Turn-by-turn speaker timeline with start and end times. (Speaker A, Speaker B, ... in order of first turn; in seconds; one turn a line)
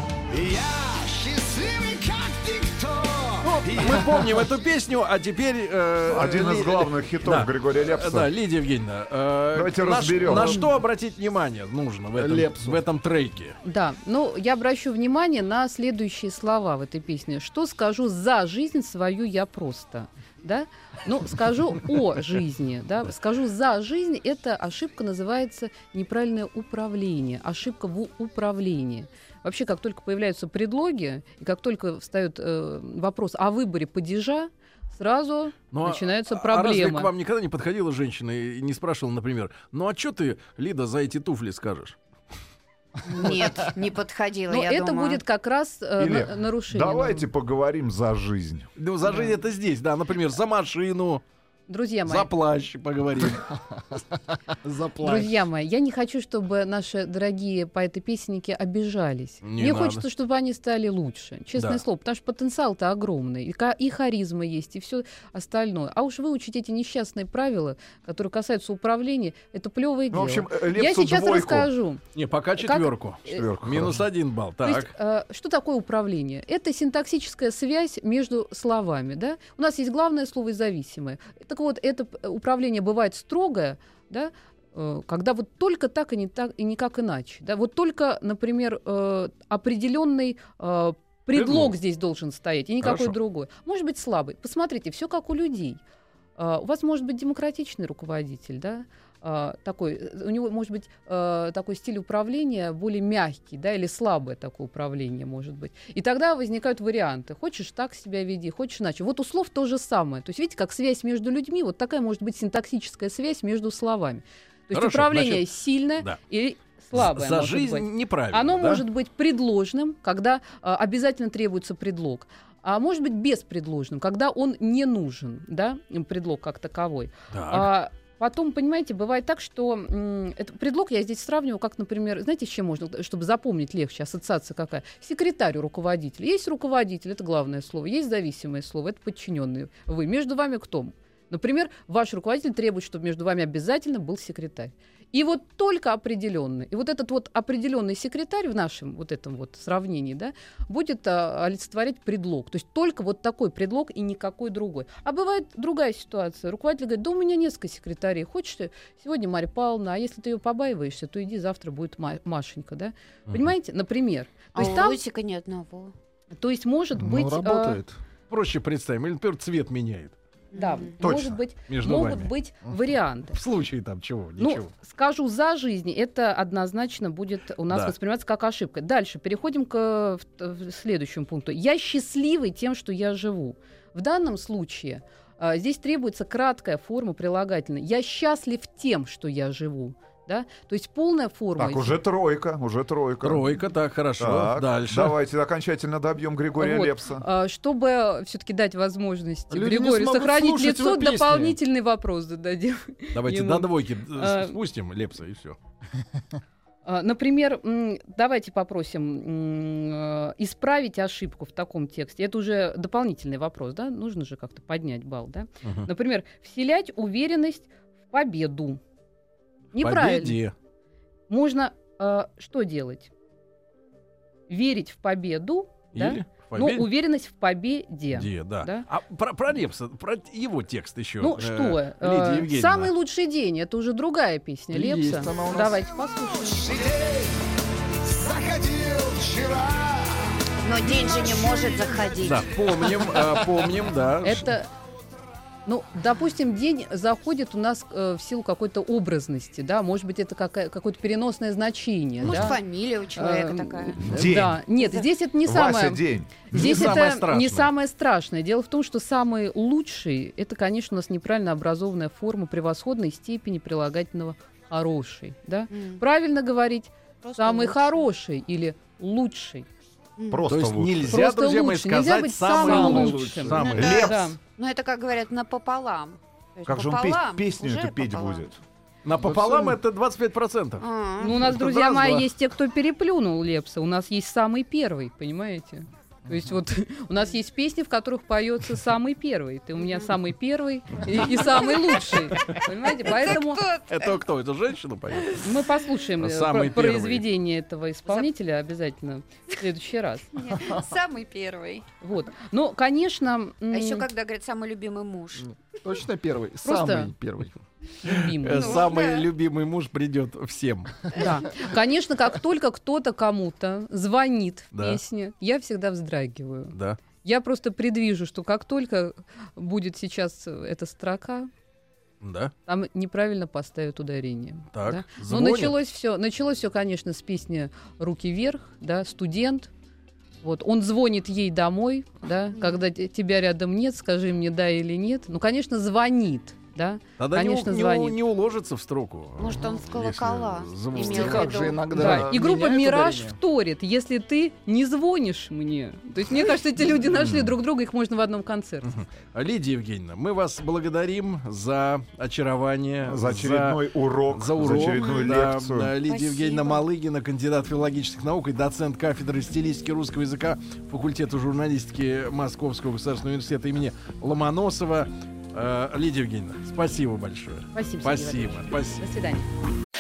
Speaker A: 0.3-4.1
Speaker B: 3.4-13.6
Speaker C: 6.1-8.3
Speaker C: 9.5-10.6
Speaker D: 12.2-12.8
Speaker E: 13.6-37.1
Speaker B: 35.7-42.0
Speaker F: 43.0-45.2
Speaker E: 44.5-47.3
Speaker C: 46.0-48.7
Speaker B: 48.8-51.2
Speaker E: 49.0-49.4
Speaker E: 51.7-52.3
Speaker B: 52.1-53.5
Speaker D: 54.6-55.4
Speaker E: 55.0-72.0
Speaker B: 59.4-60.0
Speaker C: 70.1-71.7
Speaker B: 72.1-74.9
Speaker E: 72.6-73.5
Speaker C: 73.3-74.0
Speaker E: 74.6-95.8
Speaker B: 91.3-91.7
Speaker B: 92.8-93.1
Speaker E: 96.4-165.0
Speaker B: 114.7-116.2
Speaker B: 116.9-118.8
Speaker B: 127.3-127.7
Speaker F: 164.5-165.9
Speaker E: 166.3-167.8
Speaker D: 167.0-168.0
Speaker B: 168.3-170.1
Speaker F: 170.5-170.9
Speaker E: 170.5-173.4
Speaker C: 171.0-171.4
Speaker B: 171.7-172.3
Speaker B: 173.3-174.7
Speaker E: 174.4-192.0
Speaker C: 191.6-193.6
Speaker B: 193.2-195.1
Speaker C: 194.2-197.2
Speaker E: 196.6-204.6
Speaker D: 199.5-201.6
Speaker B: 203.1-205.6
Speaker E: 206.8-218.8
Speaker B: 215.6-215.9
Speaker E: 219.7-220.4
Speaker B: 219.8-220.5
Speaker E: 221.3-223.1
Speaker E: 224.5-228.9
Speaker B: 225.9-226.9
Speaker B: 228.1-232.9
Speaker E: 231.2-236.7
Speaker D: 234.7-235.8
Speaker A: 236.4-237.4
Speaker A: 238.1-240.3
Speaker F: 240.6-242.6
Speaker A: 241.0-242.0
Speaker B: 242.2-244.5
Speaker E: 244.2-244.7
Speaker E: 245.7-252.6
Speaker F: 252.2-254.2
Speaker E: 253.1-269.7
Speaker C: 254.0-254.6
Speaker C: 255.4-256.4
Speaker B: 256.5-257.7
Speaker F: 265.7-266.0
Speaker F: 267.2-267.9
Speaker F: 270.2-270.4
Speaker C: 270.3-271.2
Speaker B: 270.5-274.1
Speaker E: 271.1-274.4
Speaker D: 272.6-273.8
Speaker F: 273.6-278.4
Speaker C: 273.7-274.3
Speaker C: 276.7-278.6
Speaker B: 279.0-282.3
Speaker D: 279.2-279.8
Speaker F: 280.8-281.4
Speaker E: 281.2-293.6
Speaker F: 289.8-290.1
Speaker F: 291.1-291.8
Speaker B: 291.2-291.4
Speaker B: 292.3-292.6
Speaker F: 293.0-294.2
Speaker B: 293.9-295.4
Speaker E: 295.4-300.3
Speaker B: 296.2-297.2
Speaker F: 300.3-301.9
Speaker E: 302.0-304.1
Speaker F: 303.7-305.5
Speaker D: 305.8-307.6
Speaker E: 306.6-307.1
Speaker E: 308.0-308.9
Speaker B: 308.4-311.1
Speaker F: 308.5-309.3
Speaker E: 311.1-321.5
Speaker B: 314.7-315.0
Speaker B: 322.2-322.5
Speaker E: 322.7-329.7
Speaker B: 324.7-325.7
Speaker E: 330.4-338.2
Speaker B: 337.2-342.1
Speaker F: 339.4-342.0
Speaker D: 341.0-343.4
Speaker E: 341.9-349.0
Speaker B: 348.8-353.8
Speaker C: 353.0-355.9
Speaker B: 354.3-369.0
Speaker F: 354.8-355.3
Speaker F: 356.0-356.8
Speaker E: 367.7-369.5